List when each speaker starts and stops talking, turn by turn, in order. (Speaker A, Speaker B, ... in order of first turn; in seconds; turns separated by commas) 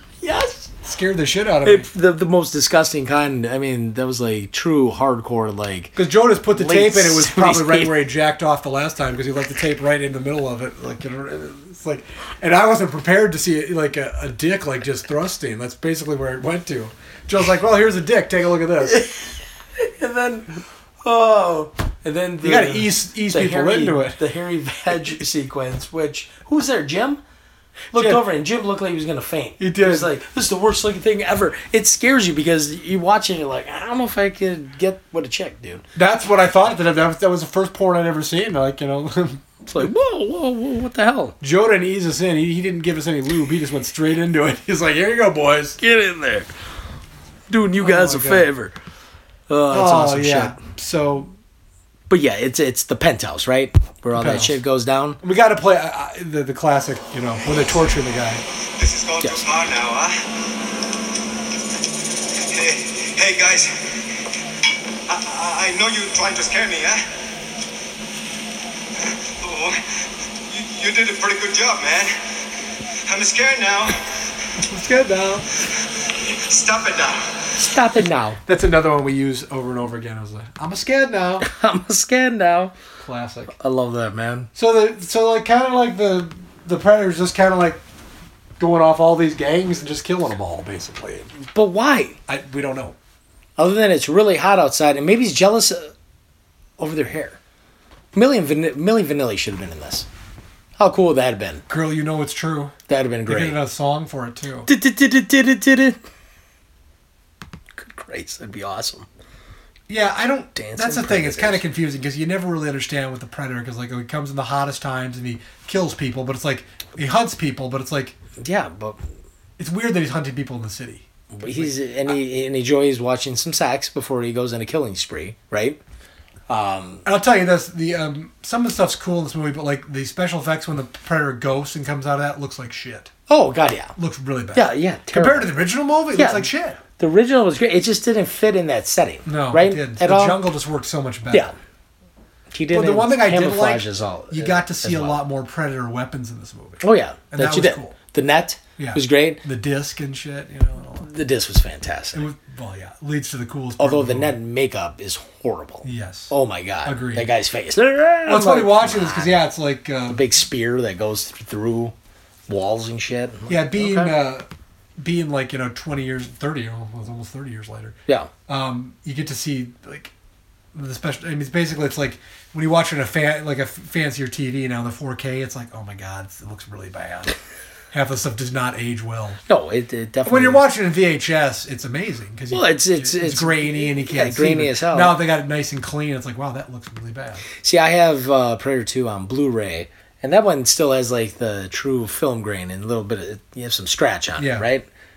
Speaker A: 0.2-0.7, Speaker B: 0.8-1.9, Speaker A: 1.6-6.0, Speaker B: 6.0-19.0, Speaker A: 6.5-7.9, Speaker A: 18.9-19.2, Speaker A: 19.8-27.2, Speaker B: 22.4-24.2, Speaker A: 27.9-35.8, Speaker B: 27.9-28.2, Speaker B: 29.6-30.1, Speaker B: 35.9-39.9, Speaker A: 39.7-41.4, Speaker B: 41.4-45.8, Speaker A: 45.8-46.5, Speaker A: 47.5-48.7, Speaker B: 47.8-48.5, Speaker A: 49.5-50.6, Speaker B: 49.7-51.3, Speaker A: 52.1-55.2, Speaker B: 54.1-54.6, Speaker B: 55.2-58.4, Speaker C: 58.8-60.4, Speaker C: 62.4-64.2, Speaker C: 65.1-67.1, Speaker C: 69.0-72.3, Speaker C: 73.0-74.0, Speaker B: 74.6-75.5, Speaker C: 76.1-77.5, Speaker A: 77.6-78.4, Speaker B: 78.5-81.5, Speaker A: 81.4-82.7, Speaker B: 83.0-83.5, Speaker A: 83.5-84.5, Speaker B: 84.5-87.8, Speaker B: 88.6-91.3, Speaker A: 91.5-92.2, Speaker B: 92.3-93.0, Speaker A: 93.6-95.9, Speaker A: 96.8-97.4, Speaker A: 98.1-100.1, Speaker A: 100.8-101.6, Speaker B: 101.7-102.7, Speaker A: 102.9-103.6, Speaker B: 103.2-104.7, Speaker A: 104.7-106.0, Speaker A: 107.8-109.1, Speaker B: 109.9-118.2, Speaker A: 110.5-111.6, Speaker A: 118.4-119.0, Speaker B: 119.6-122.1, Speaker A: 121.3-125.8, Speaker A: 126.5-127.0, Speaker B: 127.0-133.1, Speaker A: 133.3-133.9, Speaker B: 133.9-136.8, Speaker A: 134.5-135.5, Speaker A: 136.1-140.4, Speaker B: 139.2-141.5, Speaker A: 142.5-145.2, Speaker B: 142.7-148.0, Speaker A: 146.8-149.4, Speaker B: 148.8-151.1, Speaker A: 151.0-152.3, Speaker B: 152.1-154.3, Speaker A: 153.8-159.4, Speaker B: 155.8-157.3, Speaker B: 158.2-160.3, Speaker A: 160.1-161.9, Speaker A: 162.5-164.1, Speaker B: 163.5-168.0, Speaker B: 168.5-170.1, Speaker B: 170.7-177.4, Speaker B: 177.9-179.4, Speaker A: 179.5-180.7, Speaker B: 180.2-187.5, Speaker A: 182.5-185.2, Speaker A: 187.6-194.8, Speaker B: 194.4-194.7